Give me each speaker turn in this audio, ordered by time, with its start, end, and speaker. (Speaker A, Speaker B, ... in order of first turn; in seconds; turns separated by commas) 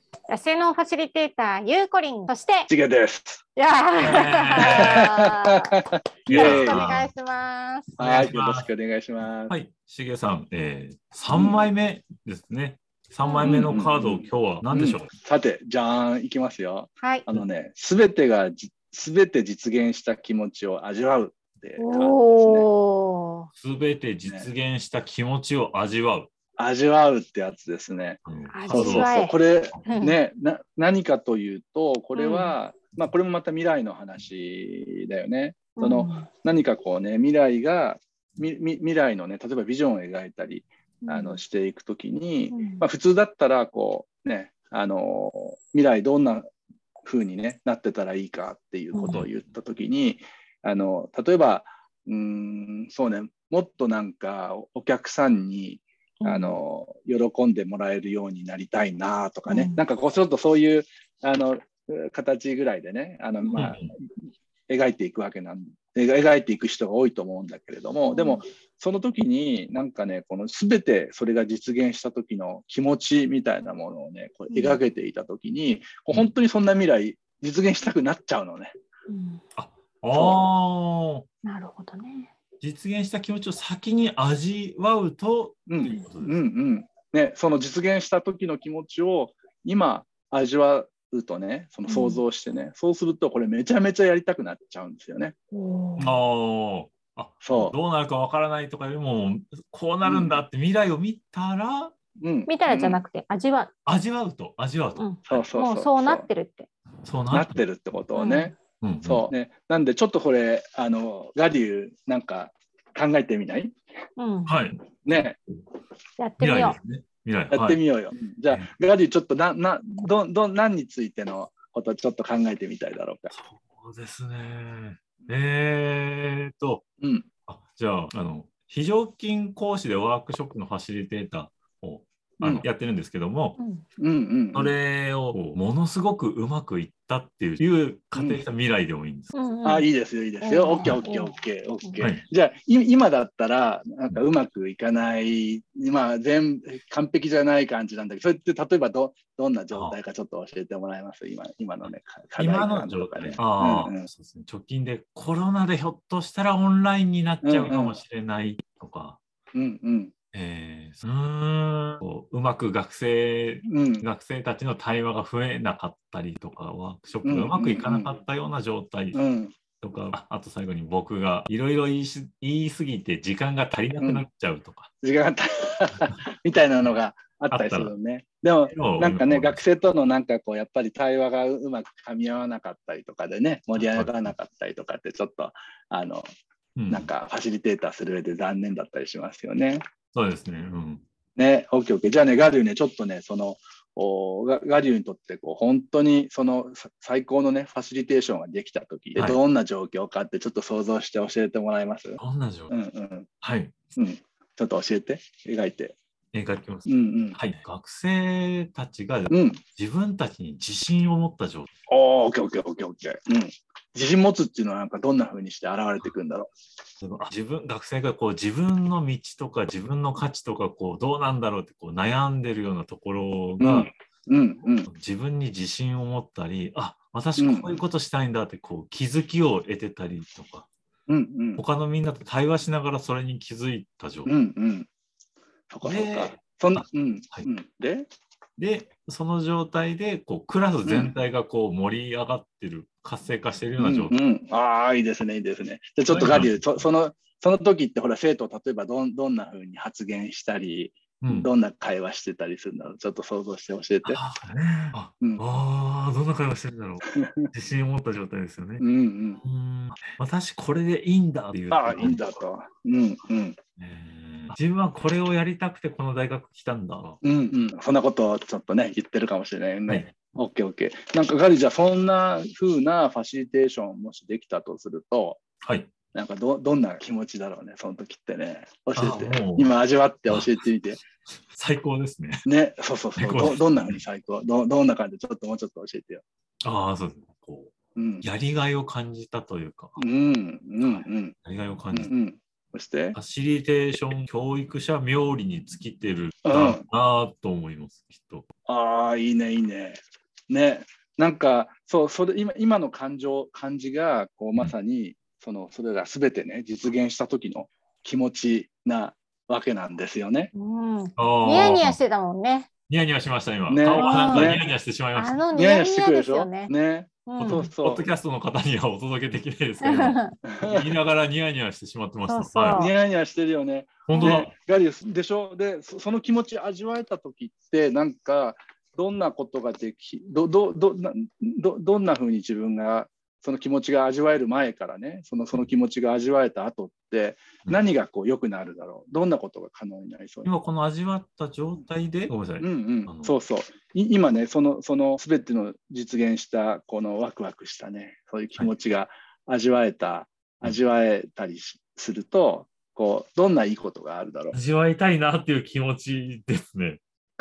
Speaker A: 0.3-2.7, Speaker B: 2.7-3.4, Speaker A: 3.6-5.8, Speaker C: 4.0-5.0, Speaker B: 4.6-6.8, Speaker C: 6.3-7.1, Speaker A: 6.3-8.0, Speaker C: 8.0-8.7, Speaker B: 8.0-9.5, Speaker C: 9.2-15.1, Speaker B: 11.3-11.7, Speaker A: 13.2-13.5, Speaker B: 13.4-22.7, Speaker A: 17.0-17.3, Speaker A: 21.8-23.5, Speaker C: 23.6-26.3, Speaker B: 26.6-46.5, Speaker C: 28.3-29.1, Speaker A: 28.5-30.2, Speaker A: 32.1-32.6, Speaker A: 35.8-36.3, Speaker A: 41.0-41.4, Speaker A: 42.5-42.9, Speaker B: 47.0-63.9, Speaker A: 48.9-49.2, Speaker A: 56.2-56.6, Speaker A: 59.5-59.8, Speaker C: 63.5-63.9, Speaker B: 64.7-78.7, Speaker A: 68.1-68.4, Speaker A: 74.5-74.8, Speaker A: 79.1-79.4, Speaker C: 79.6-81.3, Speaker B: 80.1-80.5, Speaker A: 81.4-82.3, Speaker C: 82.6-86.4, Speaker B: 85.7-95.4, Speaker A: 91.9-92.2, Speaker A: 95.5-96.1, Speaker C: 96.0-102.0, Speaker B: 97.4-97.8, Speaker B: 100.0-100.4, Speaker B: 102.2-103.0, Speaker A: 102.5-103.7, Speaker C: 103.9-105.5, Speaker A: 105.0-106.7, Speaker B: 105.3-106.3, Speaker C: 107.0-107.6, Speaker B: 107.3-113.7, Speaker A: 108.1-108.5, Speaker C: 108.8-109.3, Speaker A: 114.2-114.5, Speaker C: 114.5-114.8, Speaker B: 115.0-115.4, Speaker A: 116.2-116.8, Speaker C: 116.4-117.8, Speaker B: 117.5-123.3, Speaker C: 123.3-126.8, Speaker B: 127.0-127.3, Speaker C: 127.5-133.6, Speaker A: 133.6-133.8, Speaker B: 134.0-134.7, Speaker C: 134.5-139.3, Speaker B: 138.1-138.4, Speaker A: 139.3-139.9, Speaker B: 139.6-154.1, Speaker A: 140.4-142.1, Speaker C: 149.7-150.0, Speaker C: 151.8-159.2, Speaker B: 157.4-158.0, Speaker B: 159.5-160.1, Speaker C: 160.3-169.2, Speaker B: 163.7-164.0, Speaker B: 167.2-168.1, Speaker B: 169.1-169.6, Speaker C: 169.8-174.9, Speaker B: 174.0-174.3, Speaker B: 175.0-186.3, Speaker C: 177.5-177.9, Speaker C: 178.7-179.6, Speaker C: 183.8-184.3, Speaker C: 186.8-187.1, Speaker B: 186.9-189.8, Speaker C: 190.1-191.0, Speaker B: 191.4-203.3, Speaker C: 202.2-202.7, Speaker C: 203.4-203.8, Speaker B: 204.0-206.0, Speaker C: 206.3-211.7, Speaker B: 206.9-207.4, Speaker B: 209.3-209.6, Speaker B: 211.9-216.5, Speaker C: 217.0-223.9, Speaker B: 223.6-224.9, Speaker C: 224.9-230.7, Speaker B: 227.4-227.8, Speaker B: 231.1-231.6, Speaker C: 231.6-234.3, Speaker B: 234.3-234.9, Speaker B: 235.7-238.1, Speaker C: 235.8-237.5, Speaker C: 238.6-244.2, Speaker B: 240.8-241.2, Speaker B: 243.8-254.2, Speaker C: 246.1-246.8, Speaker C: 251.2-251.5, Speaker C: 254.1-258.9, Speaker B: 257.1-257.5, Speaker B: 258.8-259.4, Speaker C: 259.4-262.4, Speaker B: 261.7-263.6, Speaker C: 263.8-267.2, Speaker B: 267.2-275.4, Speaker C: 275.6-275.9, Speaker B: 276.1-281.0, Speaker C: 279.0-279.8, Speaker C: 280.3-280.5, Speaker C: 281.5-282.4, Speaker B: 282.4-286.2, Speaker C: 283.2-284.0, Speaker C: 286.6-290.0, Speaker B: 288.0-288.3, Speaker B: 290.0-291.4, Speaker C: 290.8-292.1, Speaker B: 291.9-293.2, Speaker C: 293.1-298.5, Speaker B: 296.4-296.8, Speaker B: 298.7-310.5, Speaker A: 310.5-312.7, Speaker C: 311.2-312.0, Speaker C: 312.9-315.4, Speaker B: 313.7-314.7, Speaker A: 313.9-314.6, Speaker A: 315.1-316.7, Speaker B: 315.6-318.1, Speaker A: 317.3-317.7, Speaker C: 317.4-322.9, Speaker A: 319.8-320.3, Speaker B: 320.5-320.9, Speaker A: 322.3-322.9, Speaker B: 322.8-340.5, Speaker C: 324.1-324.5, Speaker A: 324.1-324.4, Speaker C: 340.4-343.4, Speaker B: 342.6-354.6, Speaker C: 354.5-357.0